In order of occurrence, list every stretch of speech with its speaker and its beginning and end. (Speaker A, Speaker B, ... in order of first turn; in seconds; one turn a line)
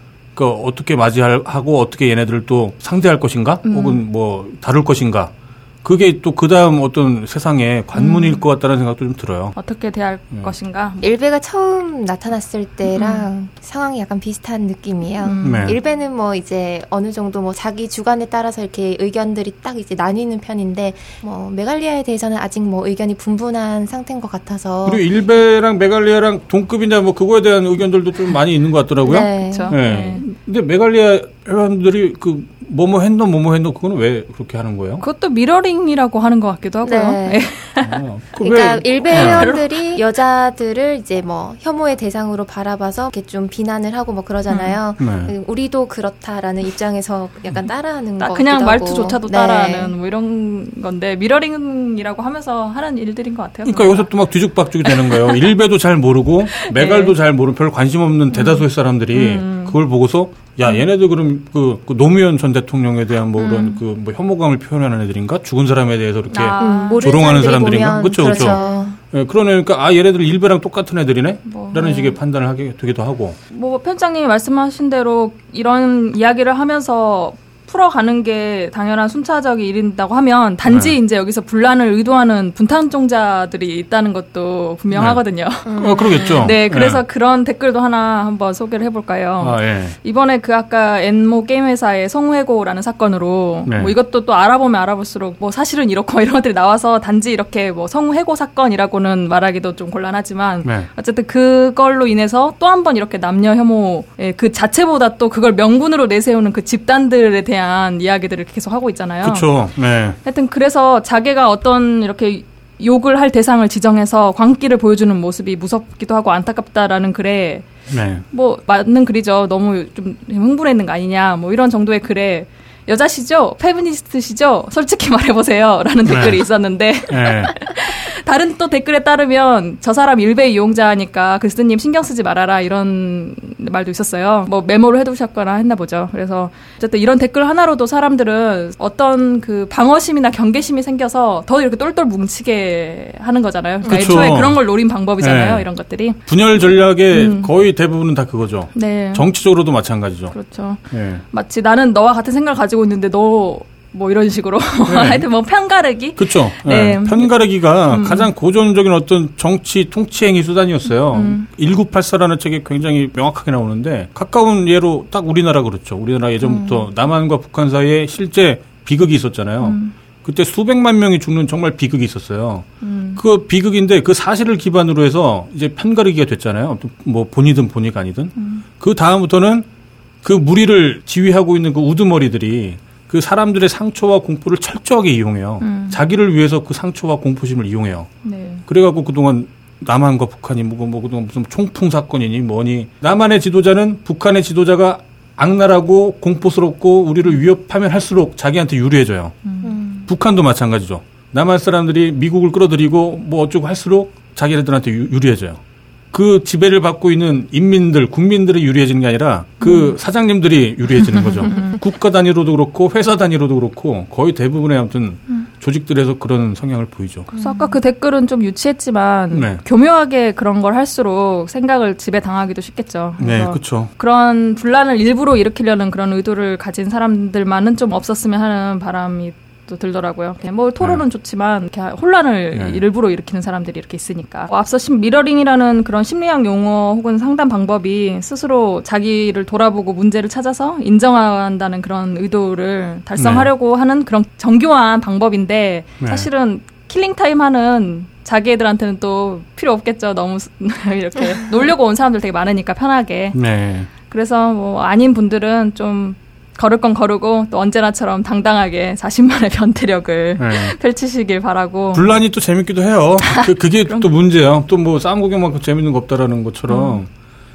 Speaker A: 0.3-9.6
Speaker B: 3.6-4.0
Speaker B: 8.0-8.4
Speaker B: 9.6-11.1
Speaker C: 11.0-25.1
Speaker B: 12.9-13.2
Speaker B: 15.2-15.8
Speaker A: 15.4-15.8
Speaker A: 24.9-35.0
Speaker C: 29.0-29.8
Speaker B: 29.4-30.2
Speaker B: 35.0-38.0
Speaker C: 36.8-37.5
Speaker A: 37.8-39.5
Speaker C: 38.4-49.9
Speaker B: 39.0-40.0
Speaker B: 44.5-44.8
Speaker A: 45.0-45.3
Speaker B: 48.2-54.1
Speaker A: 53.6-73.4
Speaker B: 54.8-55.4
Speaker B: 56.5-57.1
Speaker B: 58.3-59.8
Speaker B: 63.4-63.8
Speaker B: 66.3-67.1
Speaker C: 66.6-69.0
Speaker B: 68.2-68.8
Speaker B: 71.5-72.2
Speaker B: 73.5-109.5
Speaker A: 80.7-81.0
Speaker A: 84.9-85.2
Speaker C: 85.7-86.5
Speaker A: 85.8-87.0
Speaker A: 89.4-90.0
Speaker A: 93.7-94.0
Speaker A: 109.2-110.2
Speaker B: 110.2-117.7
Speaker A: 117.9-118.2
Speaker B: 118.3-146.2
Speaker A: 126.0-126.4
Speaker A: 127.1-127.5
Speaker A: 143.9-144.6
Speaker A: 145.2-145.7
Speaker A: 146.3-150.3
Speaker B: 146.7-147.5
Speaker B: 148.7-149.2
Speaker B: 150.3-158.3
Speaker A: 150.9-151.2
Speaker A: 154.9-155.3
Speaker A: 156.2-179.7
Speaker B: 161.1-161.5
Speaker B: 169.6-169.9
Speaker B: 172.8-173.2
Speaker B: 178.4-178.7
Speaker A: 180.2-188.1
Speaker B: 185.6-186.0
Speaker B: 188.2-188.7
Speaker A: 188.7-199.4
Speaker B: 199.5-199.8
Speaker C: 199.6-200.1
Speaker A: 200.0-217.3
Speaker B: 209.6-209.9
Speaker B: 211.0-211.8
Speaker C: 217.3-217.8
Speaker B: 217.3-253.4
Speaker A: 219.3-219.6
Speaker A: 223.2-223.9
Speaker A: 232.5-232.8
Speaker A: 243.2-243.5
Speaker A: 246.0-246.3
Speaker A: 253.3-253.9
Speaker B: 254.0-262.2
Speaker A: 260.4-260.8
Speaker A: 261.9-267.1
Speaker B: 263.2-264.1
Speaker B: 266.7-267.0